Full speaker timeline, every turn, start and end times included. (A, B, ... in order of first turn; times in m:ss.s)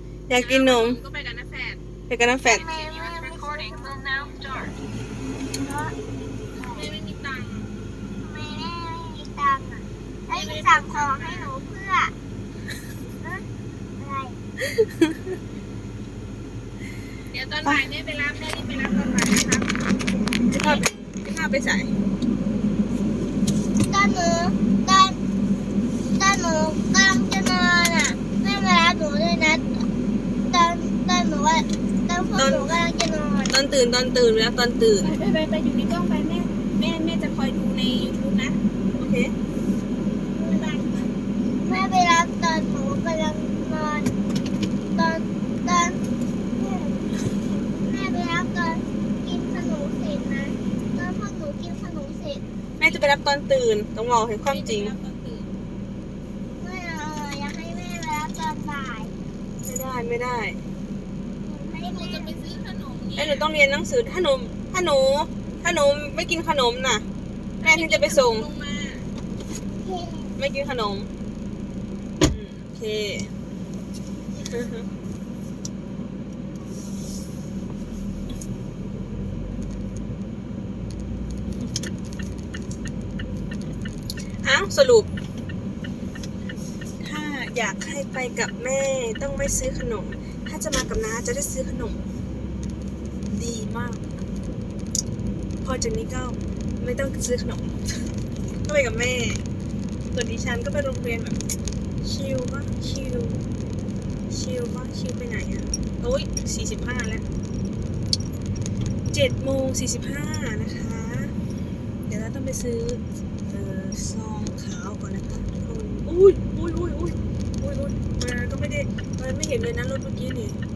0:00.3-0:01.0 A
0:00.4-0:01.8 B
0:02.1-0:02.6 A
0:02.4-0:04.5 C
0:02.5-0:04.7 B
0:05.6-0:06.0 C
0:06.6-0:06.9 C
0:06.6-0:07.7 B
0:08.2-0:12.2 C
0:10.3-0:11.5 B
0:13.2-0:13.4 C
0:14.0-0:14.4 C
0:14.7-0:15.2 A
0:17.3-0:20.1 B
0:20.5-0:21.9 A
0:23.8-0:25.2 C
0:26.2-0:29.8 C
0:30.5-0:33.6 C
0:32.4-0:32.8 A
0:33.5-0:35.2 A
0:35.0-0:38.6 B
0:39.0-0:39.3 A
0:40.3-0:41.0 C
0:40.5-0:41.1 B
0:41.6-0:44.2 C
0:45.0-0:46.0 C
0:46.6-0:47.1 C
0:47.8-0:52.4 C
0:52.8-0:54.9 A
0:54.4-0:55.5 B
0:56.6-0:59.2 C
0:59.6-1:00.6 A
1:01.4-1:02.3 C
1:01.7-1:03.5 B
1:03.1-1:07.0 A
1:07.6-1:09.1 B
1:07.6-1:08.5 A
1:09.8-1:10.3 C
1:10.4-1:11.1 A
1:12.2-1:13.3 A
1:14.4-1:14.8 A
1:24.4-1:25.1 A
1:27.0-1:32.0 A
1:33.2-1:34.1 A
1:35.6-1:38.0 A
1:38.6-1:39.4 A
1:40.1-1:41.4 A
1:42.0-1:43.4 A
1:44.3-1:47.2 A
1:49.1-1:51.4 A
1:52.1-2:00.6 A